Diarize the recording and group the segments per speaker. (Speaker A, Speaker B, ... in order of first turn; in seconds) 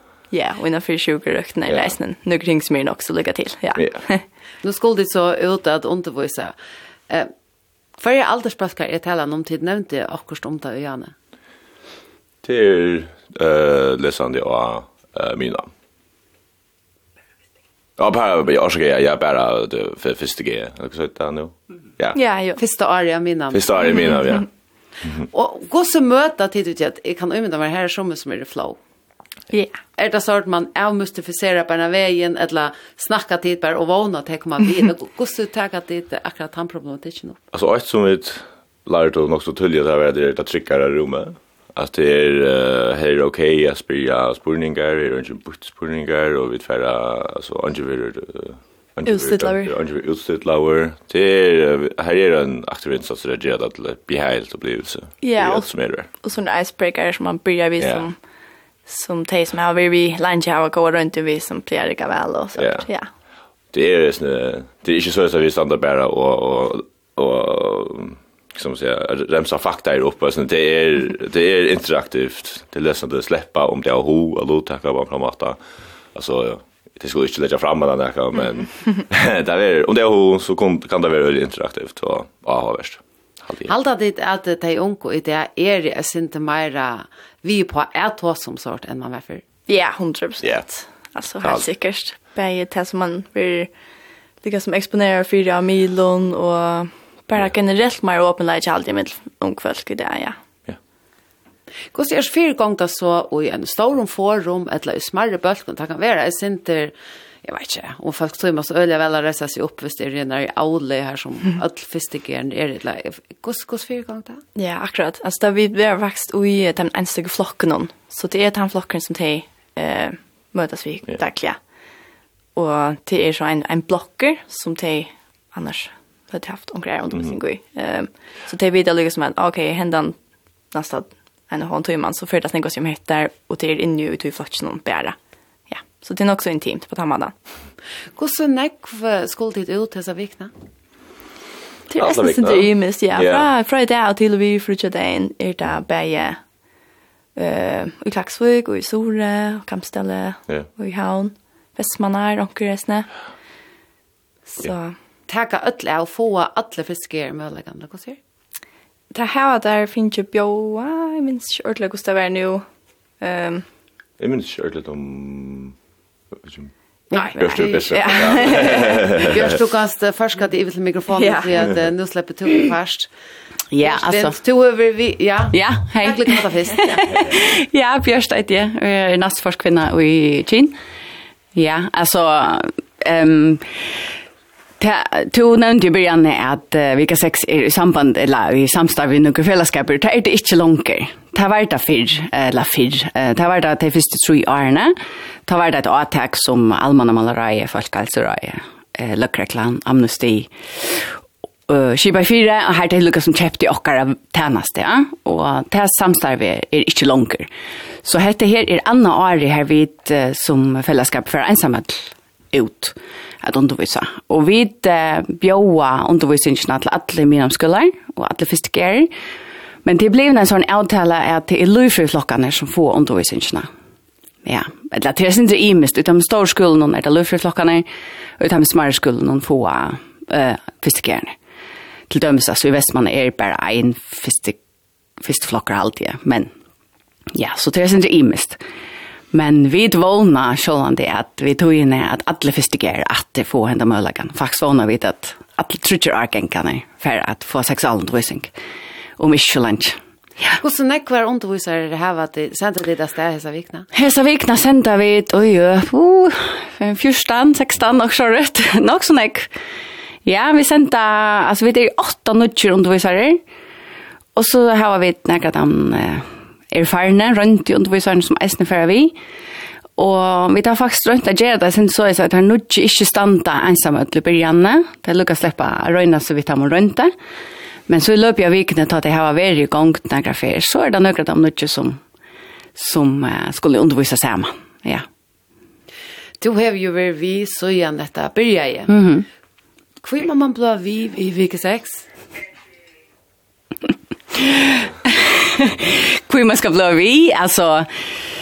Speaker A: 0.3-4.2, 22.1-22.6, 23.9-24.1, 49.0-49.7, 55.2-58.2, 58.9-63.1, 89.7-93.7, 94.4-100.3, 114.5-121.6, 122.5-130.2, 130.7-135.2, 135.7-137.3, 141.9-146.4, 147.3-153.1, 154.5-155.0, 159.1-162.6, 163.2-163.6, 167.1-169.1, 171.1-171.5
Speaker B: 1.7-1.9, 3.7-4.0, 12.4-15.7, 18.0-22.2, 23.5-24.5, 37.5-56.1, 57.8-58.1, 62.5-62.9, 63.7-75.6, 76.1-83.7, 90.4-90.7, 91.4-91.7, 141.9-143.5, 164.2-165.7, 166.4-166.7, 167.4-169.5
Speaker C: 4.6-6.5, 8.0-11.1, 22.6-23.7, 25.3-28.8, 30.0-37.4, 83.7-89.4, 101.9-114.4, 138.2-140.5, 155.3-158.2, 167.1-173.1, 173.8-177.2, 250.6-253.9, 286.4-288.9, 290.0-292.1
Speaker D: 173.7-174.3, 175.5-180.7, 181.5-183.8, 184.8-194.9, 195.4-207.5, 208.0-219.1, 219.8-223.7, 224.4-227.8, 228.4-231.3, 232.1-234.6, 235.2-236.5, 237.3-238.6, 239.3-248.5, 249.2-249.9, 253.9-259.5, 260.2-263.4, 264.3-269.1, 270.0-277.1, 277.9-282.0, 282.8-285.0, 288.9-289.2, 294.3-297.9